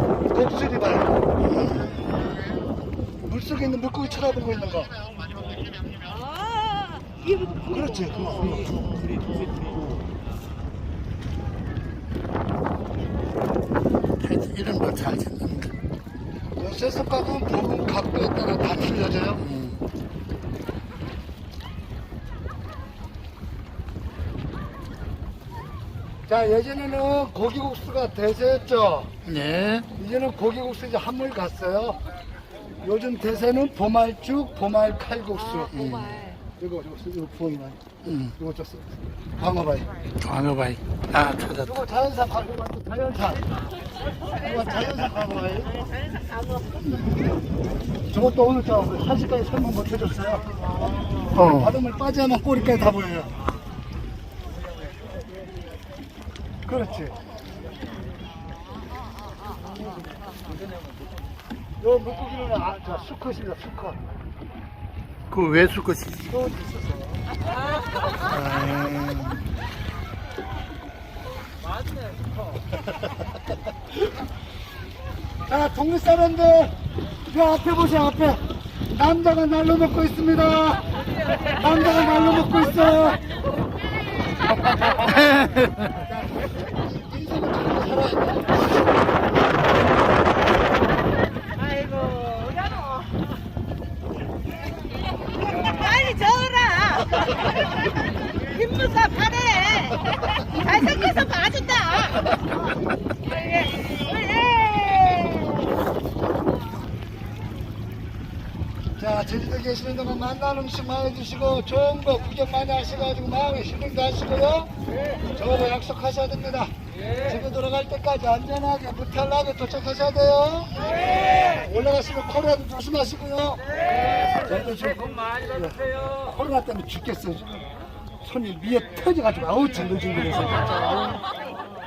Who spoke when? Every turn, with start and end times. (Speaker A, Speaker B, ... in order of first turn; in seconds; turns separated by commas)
Speaker A: 0.3-1.3, Speaker A: 3.2-5.0, Speaker B: 6.1-8.2, Speaker A: 7.7-8.7, Speaker C: 14.2-15.7, Speaker A: 16.6-19.5, Speaker A: 26.3-29.1, Speaker C: 29.2-29.9, Speaker A: 29.9-32.0, Speaker A: 32.8-36.0, Speaker B: 35.6-36.4, Speaker C: 35.8-36.2, Speaker A: 36.6-39.9, Speaker C: 40.2-41.7, Speaker A: 41.6-43.4, Speaker A: 44.4-45.8, Speaker B: 46.1-46.7, Speaker A: 48.1-50.5, Speaker A: 51.4-53.3, Speaker A: 56.7-57.1, Speaker A: 61.8-64.0, Speaker C: 65.3-66.3, Speaker A: 66.3-67.1, Speaker C: 68.3-69.4, Speaker A: 75.5-83.2, Speaker A: 85.9-88.7, Speaker B: 91.5-93.1, Speaker B: 95.5-97.6, Speaker B: 98.4-102.3, Speaker B: 103.2-105.7, Speaker A: 109.0-114.7, Speaker A: 115.3-123.7, Speaker A: 124.3-127.5, Speaker A: 128.2-131.1